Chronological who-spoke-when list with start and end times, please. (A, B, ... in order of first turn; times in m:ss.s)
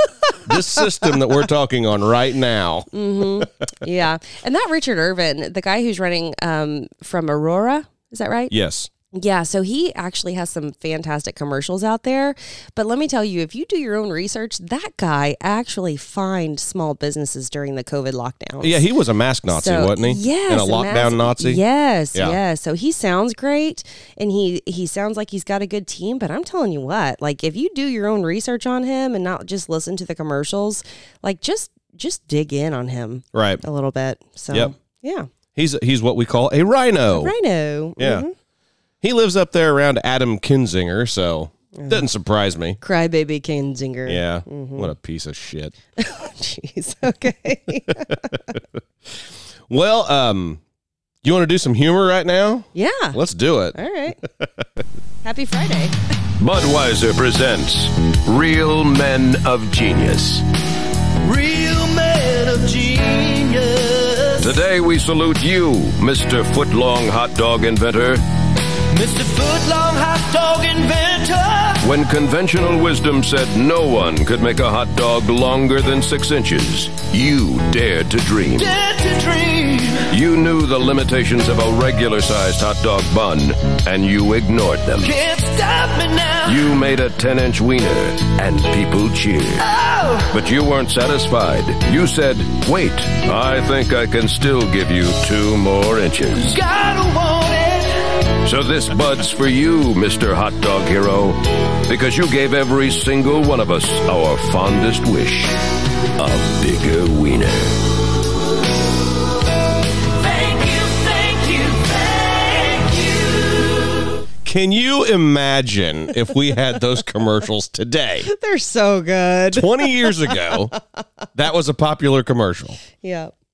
0:00.4-0:03.5 A
0:02.9-0:08.5 B
0:08.5-0:08.9 A
0:09.1-0:18.9 B
0:18.6-0:21.6 A
0:19.5-0:35.3 B
0:33.3-0:33.6 A
0:35.6-0:37.3 A
0:37.1-0:38.3 B
0:38.0-0:38.3 A
0:39.0-0:42.8 A
0:41.8-0:42.1 B
0:42.8-0:44.9 B
0:44.1-0:45.7 A
0:46.0-0:48.4 B
0:49.7-0:50.6 A
0:51.2-0:54.6 A
0:52.8-0:53.2 B
0:53.7-0:54.2 B
0:55.2-0:56.0 B
0:56.4-1:00.5 C
1:01.2-1:04.6 D
1:04.4-1:08.2 C
1:08.8-1:11.9 D
1:11.8-1:18.7 C
1:18.6-1:20.1 D
1:20.1-1:25.2 C
1:25.0-1:26.8 D
1:26.4-1:29.7 C
1:29.6-1:30.4 D
1:30.3-1:36.6 C
1:36.4-1:38.2 D
1:38.4-1:45.6 C
1:46.2-1:47.9 C
1:50.1-1:53.7 D
1:54.4-1:58.3 A
1:58.2-2:00.8 B
1:59.5-2:00.7 A
2:01.4-2:02.8 A
2:03.0-2:03.3 B